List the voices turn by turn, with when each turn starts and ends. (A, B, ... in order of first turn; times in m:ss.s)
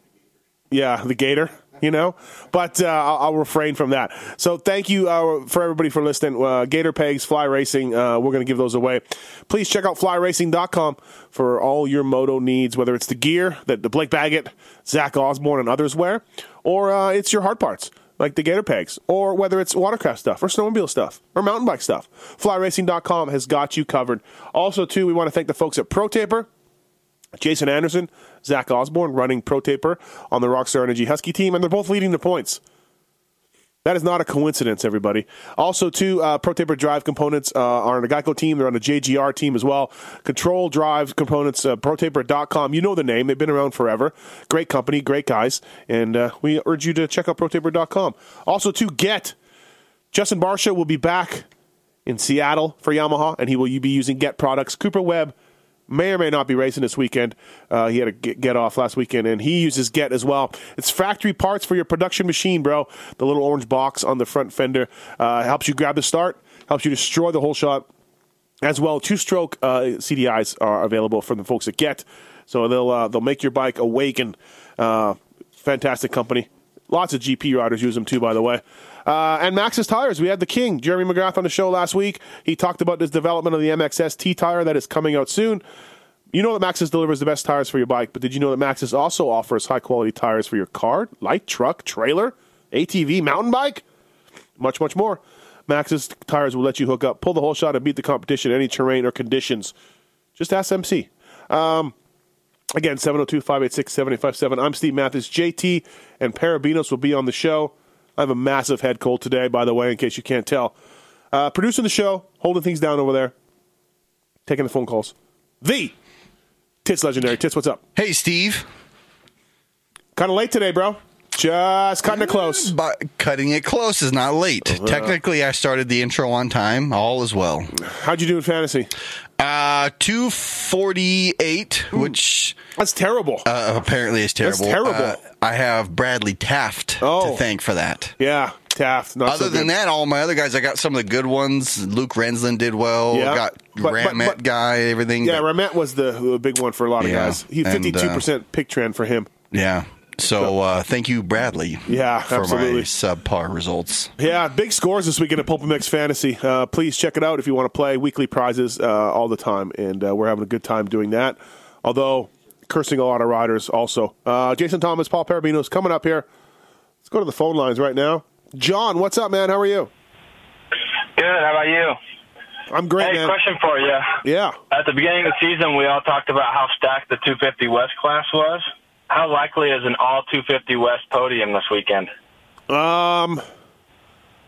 0:00.7-0:26.5 A
0:27.4-0:32.6 A
0:33.8-0:49.4 A
0:50.1-0:51.5 A
0:52.1-0:55.3 A
0:55.9-1:07.9 A
1:08.6-1:25.6 A
1:26.3-1:33.8 A
1:34.6-1:39.7 A
1:40.4-1:42.0 A
1:42.7-1:50.8 A
1:51.3-1:53.3 A
1:54.5-1:55.9 A
1:56.8-1:57.8 A
1:58.0-1:58.7 B
2:00.2-2:02.7 A
2:02.1-2:07.7 B
2:04.6-2:05.2 A
2:07.8-2:08.9 A
2:09.4-2:12.6 B
2:11.9-2:12.2 A
2:12.8-2:13.5 A
2:13.4-2:18.1 B
2:14.4-2:15.2 A
2:17.0-2:17.4 A
2:18.2-2:19.7 A
2:19.3-2:25.4 B
2:23.1-2:24.4 A
2:25.2-2:29.3 A
2:27.0-2:28.2 B
2:29.5-2:34.1 B
2:31.9-2:32.9 A
2:34.2-2:46.3 A
2:47.0-2:49.9 A
2:51.2-2:52.0 C
2:52.7-2:53.3 A
2:53.0-2:54.2 C
2:54.2-2:54.6 A
2:54.7-3:02.1 C
3:02.7-3:03.4 A